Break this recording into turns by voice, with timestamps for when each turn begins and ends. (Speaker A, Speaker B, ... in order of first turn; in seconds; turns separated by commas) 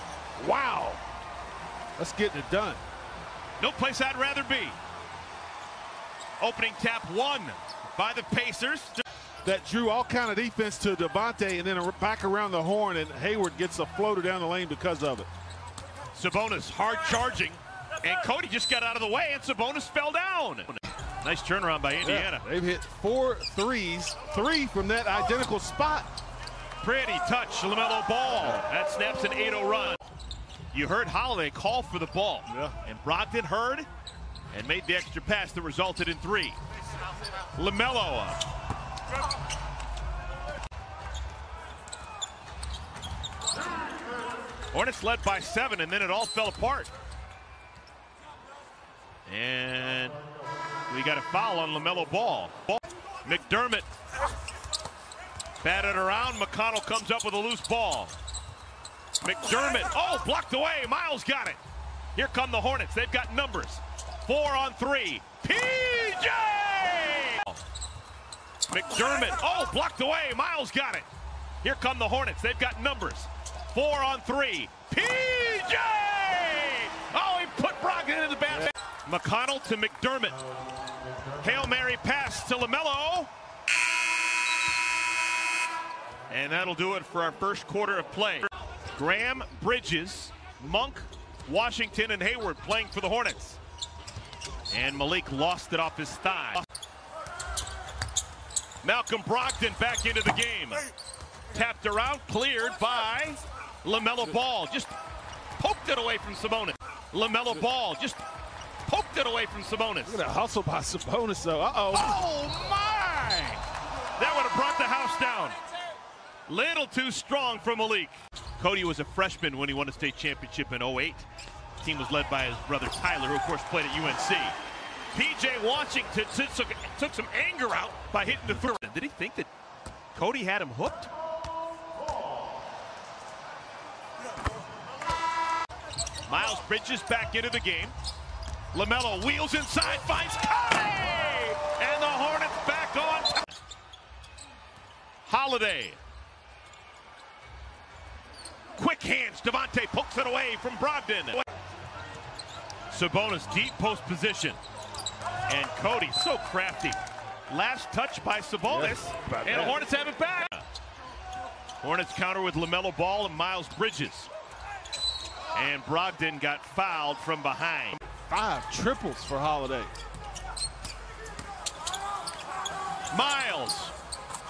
Speaker A: 0.4-1.0, Speaker A: 2.0-2.8, Speaker B: 3.6-4.8, Speaker B: 6.4-9.0, Speaker A: 9.4-15.3, Speaker B: 16.1-22.4, Speaker A: 22.0-26.1, Speaker B: 26.8-30.0, Speaker B: 30.7-33.9, Speaker B: 34.5-36.6, Speaker B: 37.5-38.4, Speaker B: 44.7-46.9, Speaker B: 49.3-50.2, Speaker B: 50.9-53.9, Speaker B: 55.6-58.1, Speaker B: 59.2-61.6, Speaker B: 62.1-67.6, Speaker B: 68.7-71.1, Speaker B: 71.6-80.4, Speaker B: 81.4-83.3, Speaker B: 86.3-93.6, Speaker B: 94.7-96.6, Speaker B: 98.8-100.9, Speaker B: 101.5-104.9, Speaker B: 105.6-108.2, Speaker B: 108.8-110.2, Speaker A: 110.0-112.1, Speaker B: 111.9-113.6, Speaker B: 114.2-115.6, Speaker B: 116.5-121.2, Speaker B: 121.8-124.5, Speaker B: 125.1-129.5, Speaker B: 130.1-131.1, Speaker B: 136.3-137.9, Speaker B: 138.7-143.4, Speaker B: 145.2-146.0, Speaker B: 148.8-151.4, Speaker B: 152.9-154.6, Speaker B: 155.5-157.0, Speaker B: 157.5-160.6, Speaker A: 158.7-159.8, Speaker B: 161.8-164.3, Speaker B: 165.5-168.0, Speaker A: 168.3-169.9, Speaker B: 173.1-173.9